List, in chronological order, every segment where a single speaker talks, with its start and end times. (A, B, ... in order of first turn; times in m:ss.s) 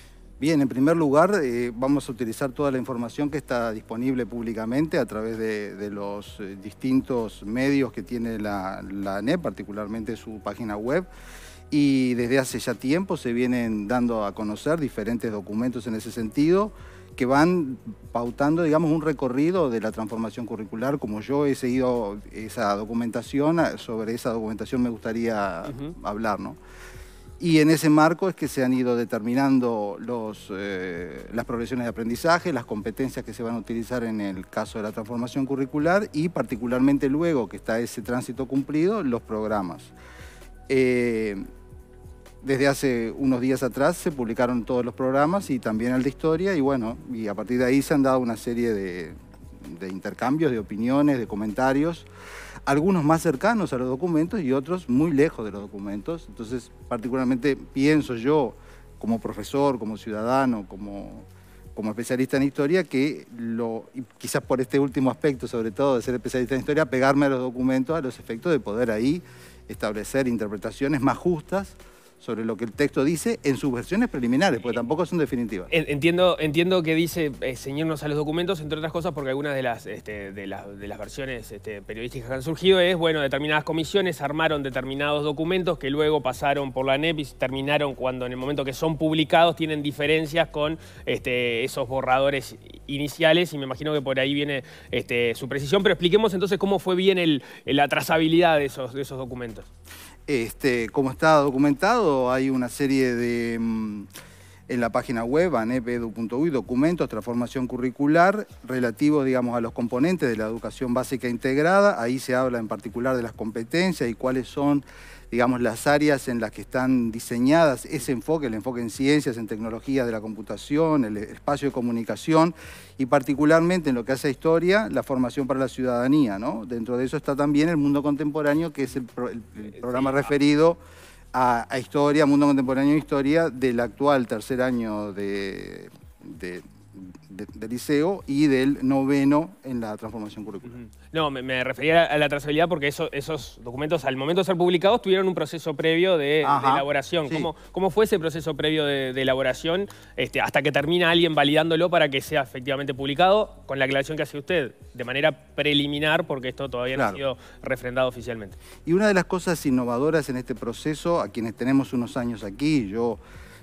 0:00.4-0:11.1 A
0:11.7-0:26.6 A
0:25.7-0:25.9 B
0:27.4-0:39.9 A
0:40.7-0:41.4 A
0:42.4-0:52.1 A
0:52.7-1:15.7 A
1:15.7-1:39.7 B
1:40.3-1:44.1 A
1:44.7-2:10.8 A
2:09.8-2:10.2 B
2:11.3-2:20.8 A
2:20.7-2:38.6 B
2:26.4-2:27.5 A
2:36.9-2:37.2 A
2:38.8-2:43.2 A